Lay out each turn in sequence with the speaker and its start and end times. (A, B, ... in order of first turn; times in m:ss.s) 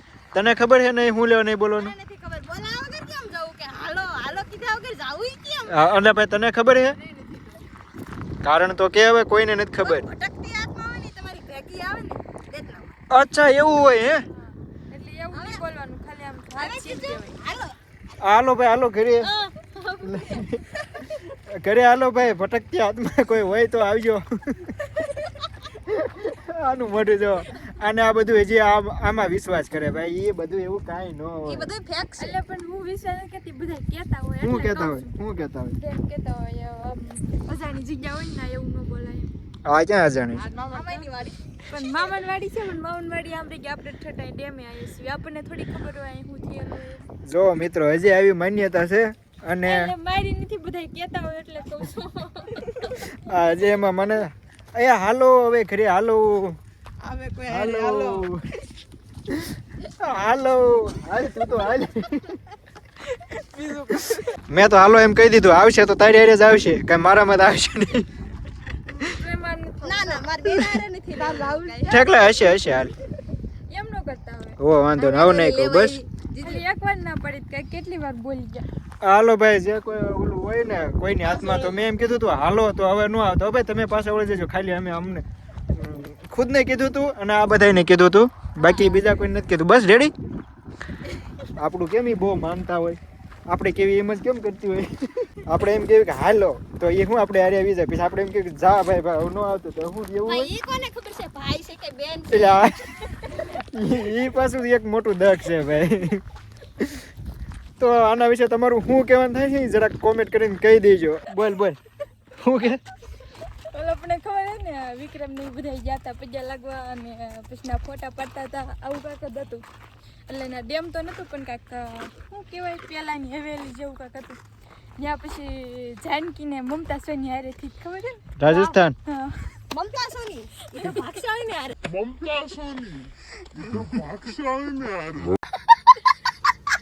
0:00.3-0:01.9 A
0:01.7-0:05.9 B
0:05.7-0:07.0 A
0:07.1-0:07.6 B
0:08.4-0:10.0 A
0:09.8-0:12.9 B
0:13.1-0:14.2 A
0:14.9-0:17.4 C
0:15.3-0:15.6 B
0:16.6-0:17.8 B
0:18.2-0:19.3 A
0:19.2-0:21.1 B
0:20.0-0:24.8 A
0:25.7-0:31.7 A
0:31.4-0:32.4 B
0:32.2-0:35.1 C
0:34.4-0:35.8 A
0:35.8-0:39.3 C
0:39.6-0:40.4 A
0:40.3-0:42.0 B
0:40.7-0:41.1 C
0:41.7-0:47.0 C
0:47.2-0:49.9 A
0:49.6-0:53.1 C
0:53.0-0:56.6 A
0:57.0-0:58.2 B
0:57.5-0:58.4 A
0:59.3-1:02.4 A
1:03.6-1:03.9 B
1:03.8-1:08.1 A
1:09.0-1:10.3 C
1:09.8-1:12.1 B
1:10.4-1:10.8 A
1:11.1-1:12.5 C
1:11.9-1:12.9 A
1:13.7-1:14.6 C
1:14.6-1:16.0 A
1:15.0-1:16.6 B
1:16.4-1:18.7 C
1:19.0-1:30.1 A
1:21.4-1:21.7 B
1:28.6-1:29.0 B
1:31.6-1:40.5 A
1:40.2-1:43.3 B
1:42.3-1:42.9 A
1:43.5-1:46.2 A
1:46.8-1:47.0 A
1:47.8-1:51.8 A
1:52.4-1:52.8 A
1:53.7-1:59.6 C
2:00.3-2:04.4 C
2:05.0-2:09.6 C
2:08.4-2:09.0 A
2:09.7-2:12.5 B
2:10.7-2:11.1 C